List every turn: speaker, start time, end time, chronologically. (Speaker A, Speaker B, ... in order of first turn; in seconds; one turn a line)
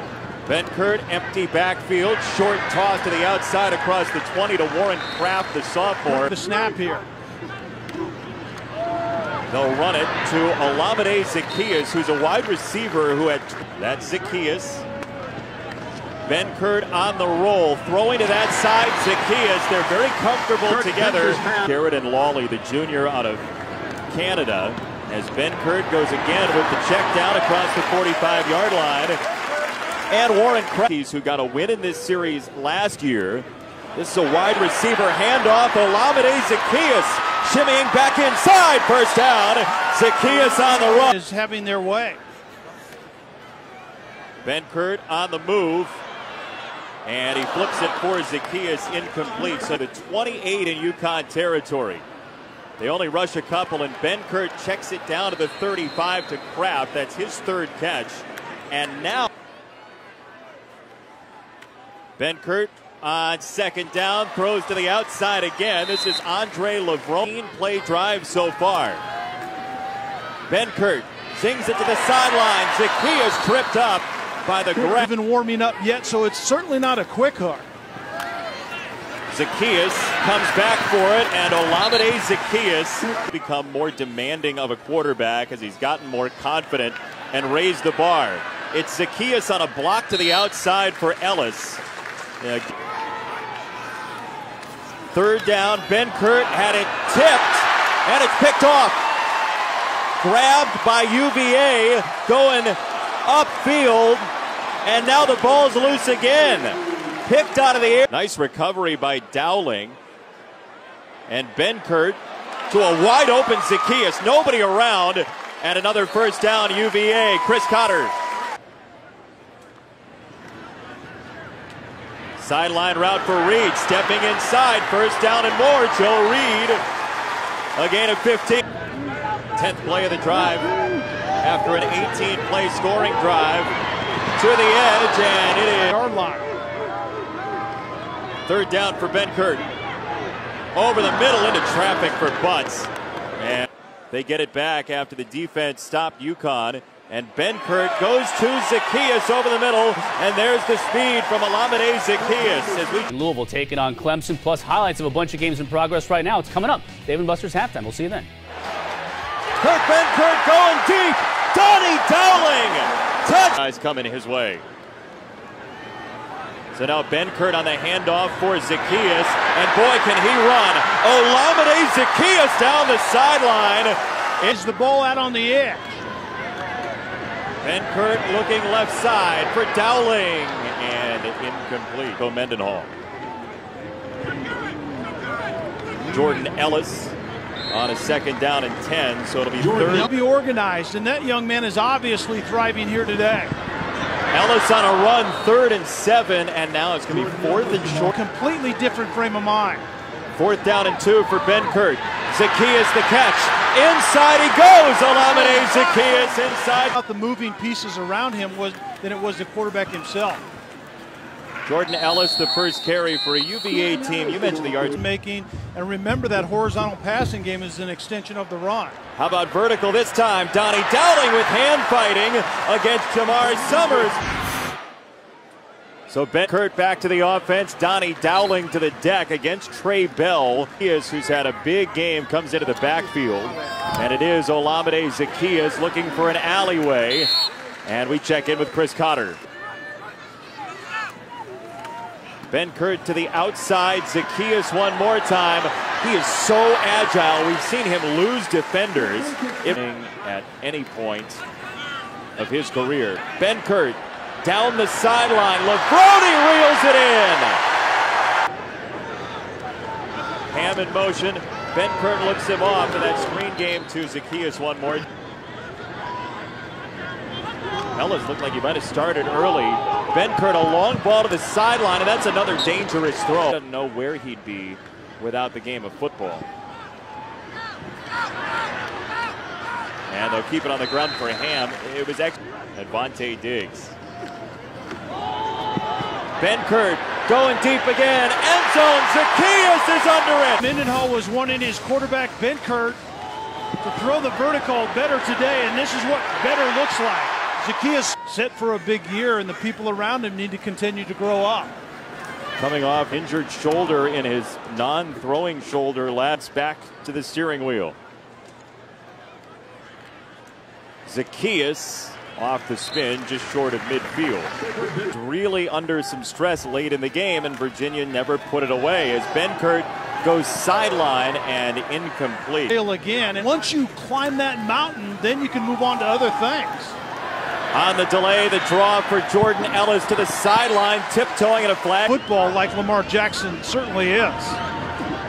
Speaker A: 0.4-6.3
Speaker B: 6.0-7.0
Speaker A: 9.5-14.8
Speaker A: 16.3-23.4
Speaker A: 24.1-29.2
Speaker A: 30.1-41.1
Speaker B: 41.0-42.2
Speaker A: 44.4-46.0
Speaker A: 47.0-52.0
Speaker A: 52.8-59.3
Speaker A: 62.2-69.0
Speaker A: 70.5-75.1
Speaker B: 75.0-77.7
Speaker A: 79.3-91.8
Speaker A: 92.4-92.7
Speaker A: 95.1-99.0
Speaker A: 100.2-104.3
Speaker A: 104.8-110.0
Speaker A: 111.3-118.2
Speaker A: 122.4-126.8
Speaker A: 127.7-128.6
Speaker A: 129.6-130.7
Speaker A: 131.4-133.7
Speaker A: 134.3-135.9
Speaker B: 135.9-136.5
Speaker A: 138.4-139.7
Speaker A: 140.7-153.1
Speaker C: 153.1-158.3
Speaker A: 159.6-164.6
Speaker A: 166.7-174.0
Speaker B: 174.4-176.0
Speaker A: 177.6-182.9
Speaker A: 186.1-187.2
Speaker A: 187.7-190.1
Speaker B: 189.8-193.5
Speaker A: 194.3-198.1
Speaker B: 198.1-199.8
Speaker A: 200.3-206.9
Speaker B: 206.9-210.4
Speaker A: 211.6-215.0
Speaker B: 214.9-218.9
Speaker A: 219.1-224.2
Speaker A: 226.1-237.3
Speaker A: 237.8-239.4
Speaker A: 242.5-251.4
Speaker A: 252.4-257.6
Speaker A: 260.5-265.1
Speaker A: 267.9-276.5
Speaker A: 280.1-283.9
Speaker A: 286.4-290.6
Speaker B: 290.6-293.0
Speaker B: 293.8-301.8
Speaker A: 302.6-307.9
Speaker A: 311.1-322.8
Speaker B: 322.7-327.0
Speaker A: 327.7-332.1
Speaker B: 332.1-334.6